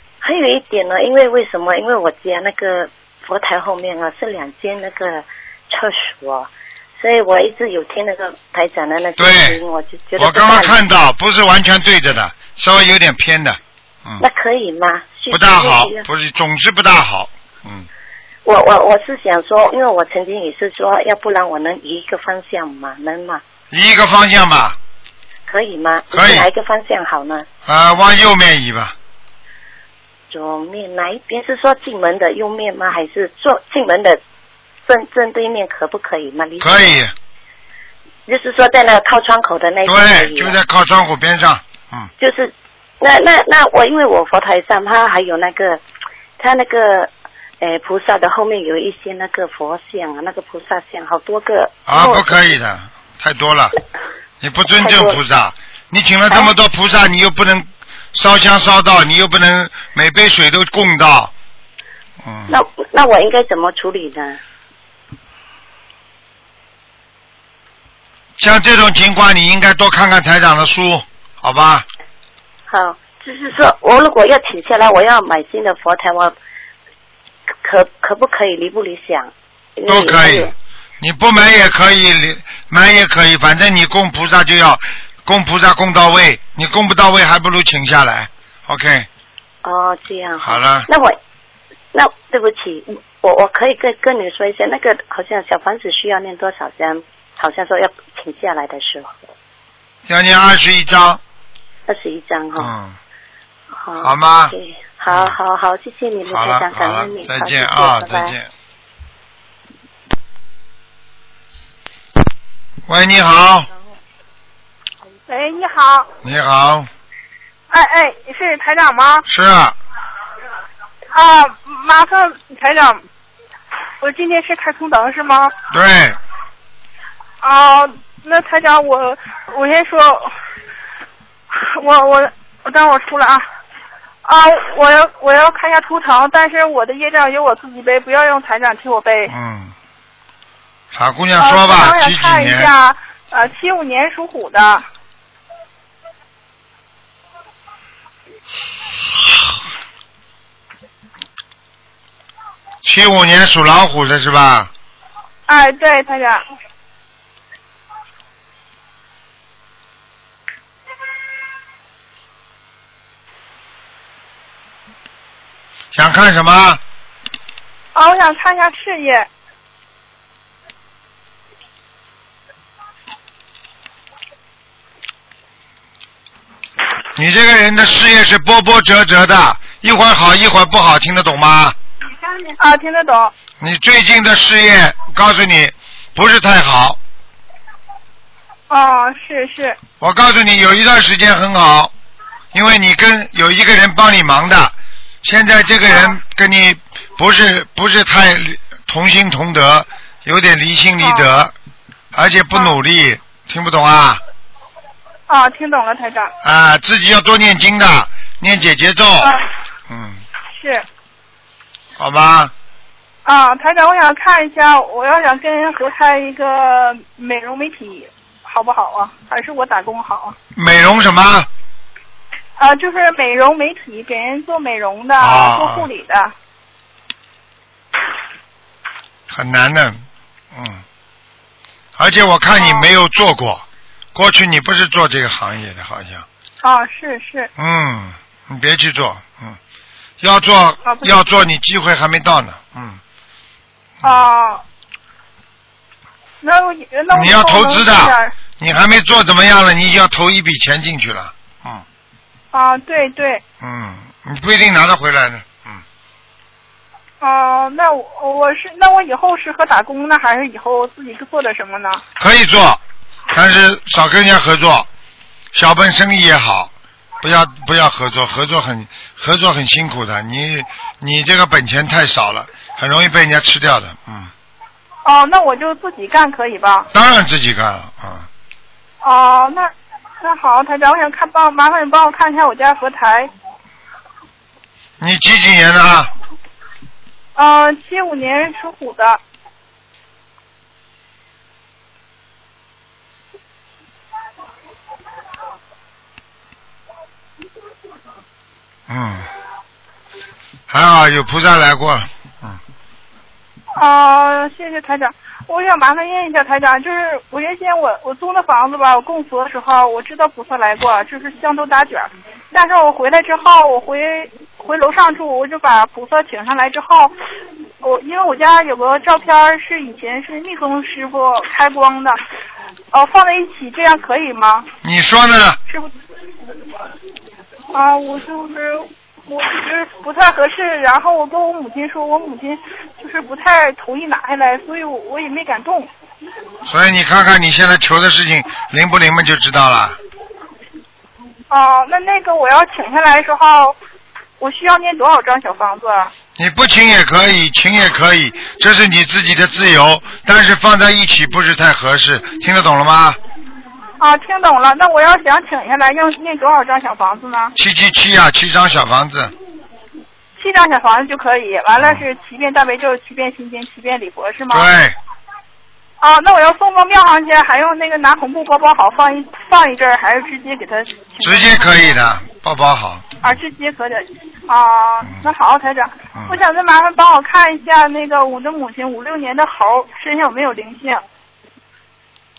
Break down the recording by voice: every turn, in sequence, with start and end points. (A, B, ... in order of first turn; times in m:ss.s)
0:00.2-0:10.8 A
0:09.2-0:09.6 B
0:10.2-0:14.2 B
0:14.2-0:16.1 A
0:15.3-0:17.9 B
0:18.4-0:23.4 A
0:23.7-0:24.8 B
0:25.5-0:27.5 A
0:26.1-0:26.5 B
0:27.6-0:29.0 B
0:30.3-0:34.2 A
0:34.8-0:37.0 A
0:36.6-0:37.1 B
0:38.3-0:40.6 A
0:39.8-0:42.1 B
0:42.2-0:45.8 A
0:46.4-0:52.5 A
0:51.9-0:53.7 B
0:54.4-1:01.3 B
0:54.8-0:55.2 A
1:02.2-1:02.6 B
1:02.5-1:04.4 A
1:08.4-1:11.8 B
1:12.7-1:16.4 A
1:17.6-1:20.5 A
1:19.9-1:29.1 B
1:29.6-1:31.2 A
1:30.4-1:30.9 B
1:31.9-1:39.2 A
1:40.1-1:41.2 B
1:41.9-1:42.7 A
1:42.6-1:43.0 B
1:43.8-1:48.4 A
1:44.0-1:44.5 B
1:45.1-1:45.4 B
1:46.3-1:48.5 B
1:52.9-1:53.7 B
1:55.3-1:56.1 C
1:56.2-1:56.9 B
1:57.7-1:59.3 C
1:59.3-1:59.8 B
2:01.1-2:03.0 C
2:04.0-2:05.5 C
2:05.7-2:06.2 B
2:07.4-2:10.4 C
2:11.5-2:13.5 C
2:14.2-2:19.3 C
2:19.3-2:19.7 B
2:20.9-2:22.7 B
2:21.4-2:24.8 C
2:32.8-2:34.7 B
2:35.5-2:36.4 C
2:45.9-2:46.8 B
2:48.0-2:49.3 C
2:57.2-3:01.8 B
3:02.6-3:03.3 C
3:03.6-3:07.0 B
3:08.7-3:09.8 C
3:10.0-3:11.9 B
3:12.5-3:21.5 B
3:21.0-3:21.3 C
3:22.1-3:24.2 B
3:25.3-3:26.3 C
3:26.4-3:29.4 B
3:29.9-3:30.2 B
3:30.5-3:30.8 C
3:32.0-3:32.5 B
3:33.3-3:40.4 C
3:40.6-3:41.5 B
3:42.6-3:46.3 C
3:45.2-3:45.9 B
3:49.3-3:50.8 B
3:52.0-3:56.3 B
3:52.6-3:52.9 C
3:56.6-3:57.5 C
3:57.6-3:59.6 B
4:00.2-4:03.0 B
4:00.8-4:01.2 C
4:04.0-4:04.6 C
4:06.4-4:08.3 C
4:07.1-4:11.8 B
4:12.5-4:13.4 C
4:13.6-4:15.8 B
4:17.2-4:22.0 C
4:22.2-4:22.8 B
4:23.3-4:24.9 B
4:25.5-4:34.3 B
4:35.0-4:36.9 C
4:36.9-4:38.3 B
4:39.0-4:43.3 C
4:45.0-4:46.1 B
4:47.4-4:49.2 C
4:58.9-4:59.3 B
5:00.7-5:02.6 B
5:03.8-5:17.1 C
5:17.8-5:22.2 C
5:22.9-5:24.7 C
5:24.8-5:25.6 B
5:27.7-5:35.9 C
5:36.7-5:40.0 B
5:41.5-5:43.8 C
5:44.4-5:46.1 C
5:46.4-5:53.2 B
5:54.0-5:57.5 C
5:57.6-5:59.3 B
6:00.4-6:04.7 C
6:01.8-6:02.0 B
6:04.5-6:05.0 B
6:06.0-6:11.8 C
6:11.2-6:13.1 B
6:13.2-6:21.0 C